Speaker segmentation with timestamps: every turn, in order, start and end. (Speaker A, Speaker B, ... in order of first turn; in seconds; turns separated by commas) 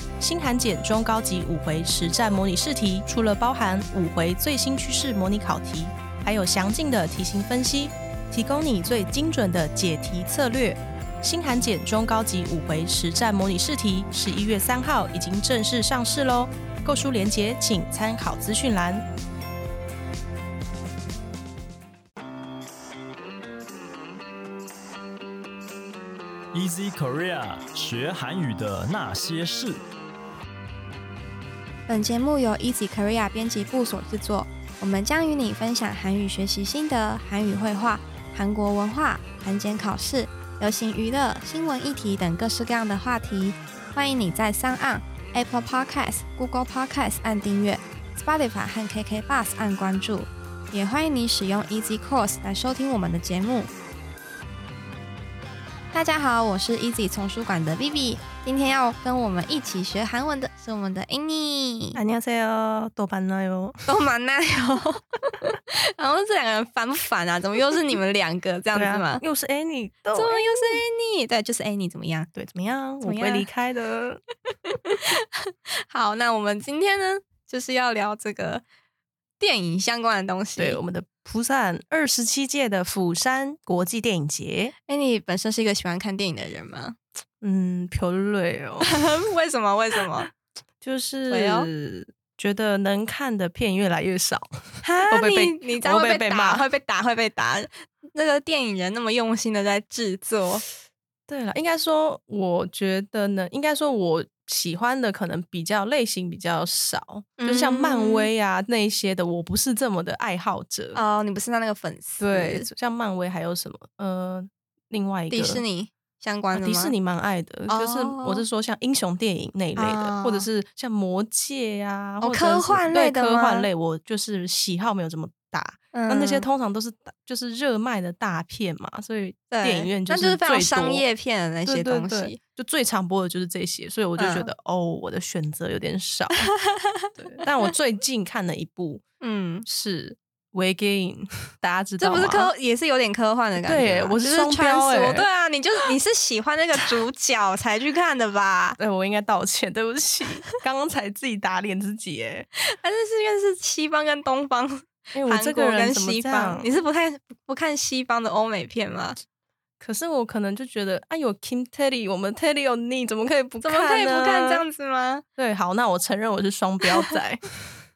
Speaker A: 0.2-19.0, Speaker B: 26.5-29.8, Speaker C: 31.9-53.7, Speaker C: 55.9-62.0, Speaker A: 61.9-63.9, Speaker C: 63.9-69.2, Speaker A: 68.7-70.8, Speaker C: 70.1-72.3, Speaker A: 72.3-74.2, Speaker C: 73.0-73.5, Speaker C: 74.7-78.6, Speaker C: 79.4-80.8, Speaker A: 80.6-84.7, Speaker C: 84.9-87.0, Speaker A: 87.4-88.9, Speaker C: 88.8-90.3, Speaker A: 90.8-96.7, Speaker C: 91.3-91.7, Speaker C: 94.8-100.6, Speaker A: 101.3-111.0, Speaker C: 107.4-108.3, Speaker C: 110.9-112.7, Speaker A: 112.2-115.6, Speaker C: 115.3-116.9, Speaker A: 116.5-131.1, Speaker C: 117.7-118.5, Speaker C: 119.8-120.5, Speaker C: 122.2-123.7, Speaker C: 125.9-126.5, Speaker C: 129.5-132.4, Speaker A: 131.6-136.5, Speaker C: 134.2-134.5, Speaker C: 136.7-137.4, Speaker A: 137.2-139.0, Speaker C: 139.2-139.7, Speaker A: 139.7-142.5, Speaker C: 142.0-148.8, Speaker A: 143.6-145.2, Speaker A: 148.8-152.5, Speaker C: 152.7-159.2, Speaker A: 155.1-156.7, Speaker A: 159.8-164.6, Speaker C: 163.6-165.2, Speaker A: 165.4-167.4, Speaker C: 166.9-167.2